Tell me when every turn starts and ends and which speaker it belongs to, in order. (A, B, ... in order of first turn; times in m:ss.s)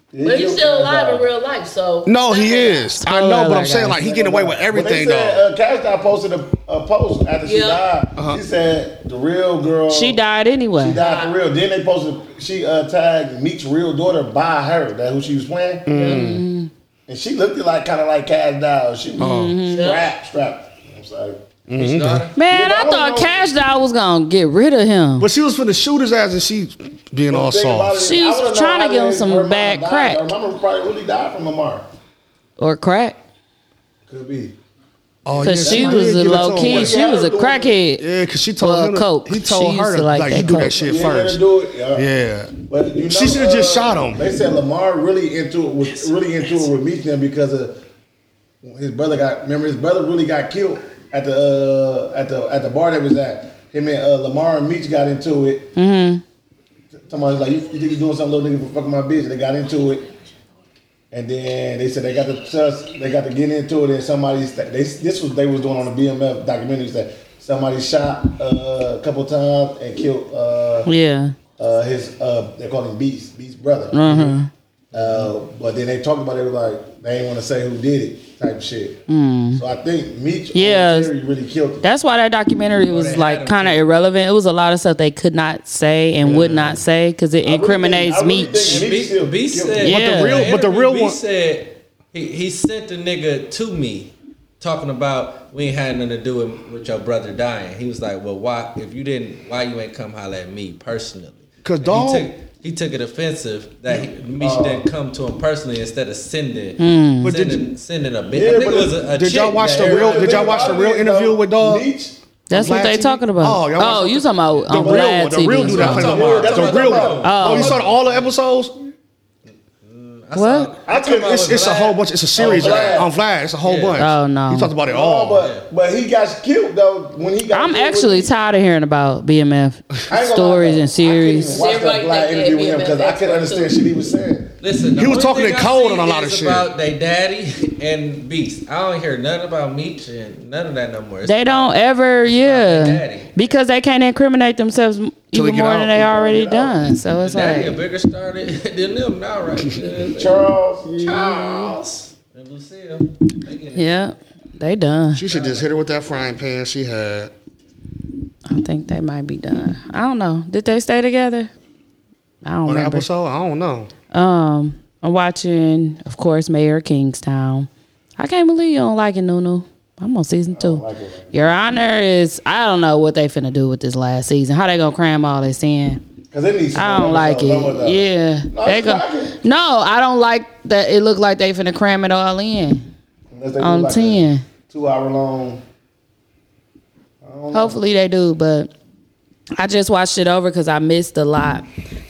0:00.1-0:01.2 A
0:00.2-0:03.0 B
0:02.0-0:05.4 C
0:03.0-0:04.0 D
0:03.9-0:10.2 A
0:07.4-0:07.8 B
0:09.9-0:11.0 D
0:10.7-0:16.1 A
0:11.0-0:11.3 B
0:15.9-0:16.4 C
0:15.9-0:16.7 D
0:17.1-0:21.4 A
0:19.2-0:19.9 D
0:19.2-0:19.6 C
0:19.7-0:20.1 B
0:21.7-0:22.3 C
0:21.7-0:22.4 E
0:22.3-0:25.3 D
0:22.4-0:23.4 A
0:25.2-0:28.0 C
0:27.3-0:31.9 A
0:28.0-0:30.3 D
0:32.6-0:33.2 D
0:34.1-0:34.5 A
0:35.2-0:37.0 C
0:35.3-0:37.8 A
0:35.4-0:38.0 D
0:38.0-0:44.2 C
0:38.6-0:40.9 D
0:40.3-0:42.0 A
0:42.7-0:47.8 A
0:45.8-0:46.7 E
0:48.6-0:55.8 A
0:55.8-0:56.2 D
0:57.0-1:00.1 A
1:01.1-1:10.9 A
1:10.8-1:11.4 D
1:11.6-1:14.4 A
1:13.9-1:14.5 D
1:14.9-1:19.0 A
1:15.0-1:15.3 E
1:19.1-1:19.6 D
1:19.5-1:21.9 A
1:20.5-1:21.1 D
1:21.8-1:28.8 D
1:22.9-1:23.8 E
1:26.2-1:26.8 A
1:27.4-1:29.9 A
1:28.6-1:50.7 E
1:29.8-1:30.4 D
1:29.8-1:31.2 C
1:41.6-1:42.3 C
1:43.9-1:44.9 A
1:46.8-1:47.3 D
1:47.2-1:47.7 C
1:48.3-1:52.2 A
1:49.1-1:51.9 C
1:52.5-1:56.4 D
1:52.5-1:58.7 C
1:54.7-1:57.8 A
1:55.7-1:58.3 E
1:57.2-1:57.8 D
1:59.8-2:03.1 E
2:00.3-2:00.7 D
2:00.8-2:01.8 A
2:01.4-2:05.5 C
2:02.3-2:03.1 A
2:03.6-2:04.1 E
2:04.0-2:04.7 D
2:04.8-2:08.3 A
2:05.4-2:05.7 E
2:07.5-2:11.6 D
2:10.1-2:14.5 A
2:11.5-2:13.8 B
2:14.6-2:21.7 E
2:14.9-2:16.7 C
2:21.2-2:27.8 D
2:22.3-2:23.5 E
2:25.3-2:26.0 C
2:25.9-2:26.8 A
2:27.2-2:34.1 E
2:30.1-2:31.8 A
2:33.7-2:35.2 D
2:35.1-2:37.3 C
2:35.3-2:35.7 E
2:38.5-2:41.5 D
2:42.4-2:43.1 D
2:42.6-2:43.9 C
2:44.1-2:56.0 D
2:50.5-2:51.6 A
2:56.3-2:59.4 A
2:56.7-3:02.9 D
3:03.3-3:05.6 A
3:03.6-3:04.5 D
3:07.2-3:07.8 A
3:07.5-3:08.7 D
3:09.6-3:11.6 D